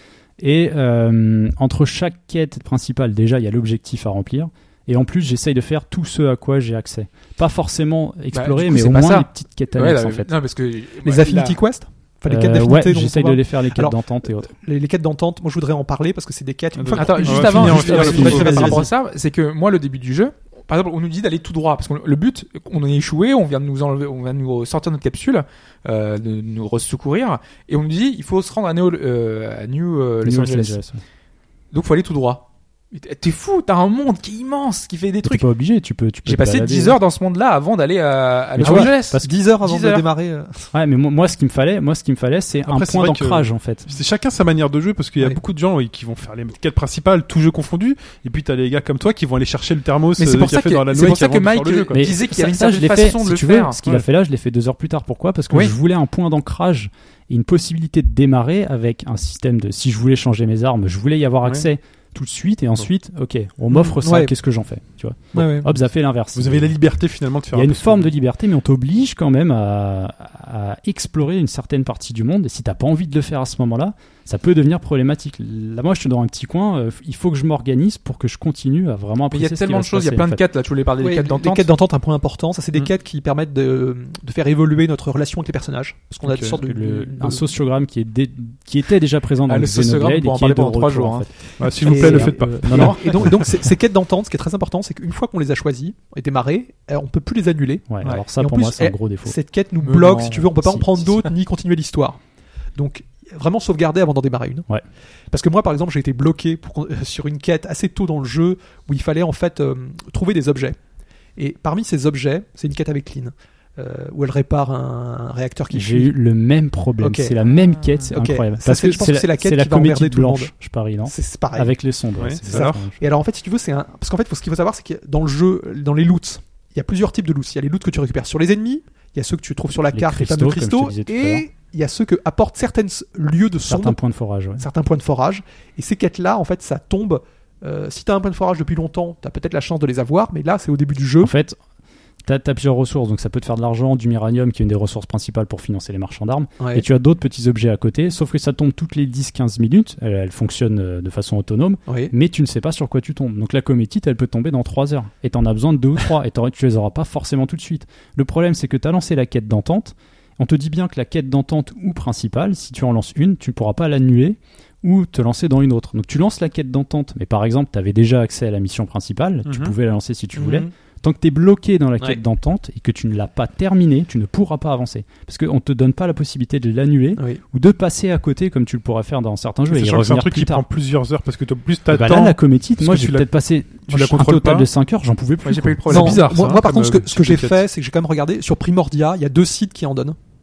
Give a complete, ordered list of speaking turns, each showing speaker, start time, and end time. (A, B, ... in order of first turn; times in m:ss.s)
0:00.4-0:10.3 A
0:08.3-0:11.6 B
0:11.0-0:18.9 C
0:12.3-0:14.5 A
0:16.8-0:18.8 D
0:16.9-0:30.8 B
0:17.5-0:18.7 A
0:30.2-0:31.0 A
0:31.7-0:35.4 B
0:35.2-0:37.0 A
0:36.3-0:40.0 B
0:38.6-0:39.3 A
0:38.6-0:40.7 C
0:40.7-0:43.9 A
0:42.6-0:52.2 D
0:50.2-0:53.8 B
0:51.9-1:06.8 A
1:03.7-1:04.3 C
1:05.3-1:05.7 C
1:06.4-1:08.1 D
1:07.5-1:20.4 A
1:19.3-1:21.7 B
1:21.0-1:27.4 C
1:26.3-1:26.6 D
1:26.3-1:31.3 A
1:29.5-1:31.3 B
1:31.6-1:32.9 D
1:31.8-1:33.3 A
1:31.8-1:42.2 C
1:32.7-1:33.2 B
1:37.9-1:39.4 A
1:39.9-1:40.3 B
1:40.1-1:41.2 A
1:42.8-1:44.7 C
1:45.3-1:50.8 C
1:51.4-1:56.1 C
1:55.7-2:03.0 A
1:57.0-1:57.4 C
1:58.1-2:00.5 C
2:01.1-2:01.7 C
2:02.2-2:02.9 D
2:02.5-2:14.0 C
2:09.9-2:11.4 A
2:13.7-2:14.6 A
2:14.6-2:21.3 C
2:21.2-2:21.6 A
2:22.2-3:00.6 A
2:26.6-2:26.8 C
2:31.9-2:32.1 C
2:49.4-2:49.7 D
2:50.4-2:50.7 C
2:59.7-3:03.3 D
3:01.9-3:06.2 A
3:03.9-3:04.7 D
3:05.4-3:06.2 B
3:05.9-3:07.6 D
3:05.9-3:10.2 C